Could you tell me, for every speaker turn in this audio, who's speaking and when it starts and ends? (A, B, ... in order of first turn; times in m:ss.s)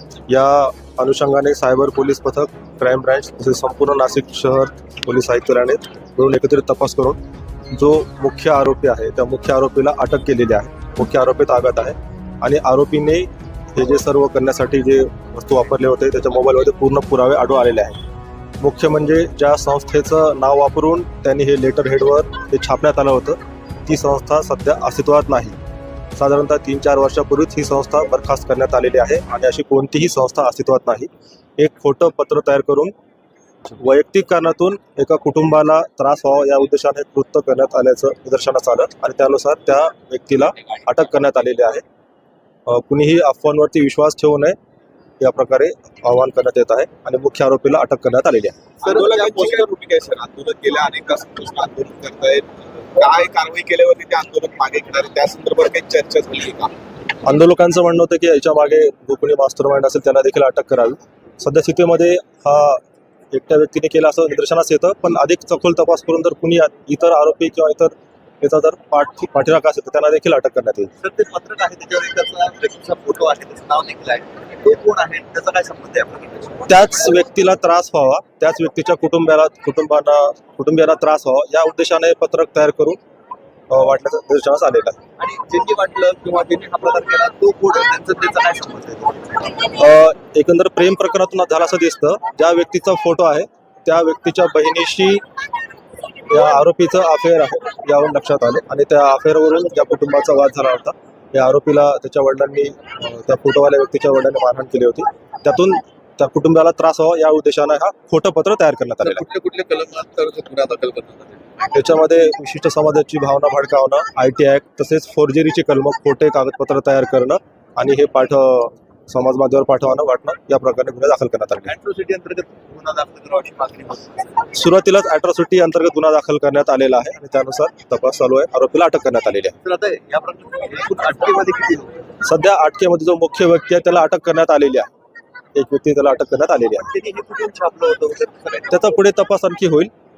0:00.3-0:07.2 A
0:07.7-0:18.0 A
0:18.6-0:25.6 A
0:26.2-0:32.9 A
0:33.7-0:41.8 A
0:42.7-0:44.6 A
0:45.2-0:49.6 A
0:48.8-0:56.7 B
0:57.2-1:10.9 A
1:11.0-1:16.6 B
1:16.6-1:23.0 A
1:23.7-1:25.0 A
1:25.2-1:29.5 B
1:29.6-1:35.2 A
1:36.3-1:49.2 A
1:49.2-1:51.3 B
1:51.7-2:01.7 A
2:01.7-2:04.3 B
2:04.5-2:09.6 A
2:09.6-2:11.9 B
2:12.2-2:14.9 A
2:15.6-2:16.9 A
2:16.9-2:18.7 B
2:18.7-2:19.9 A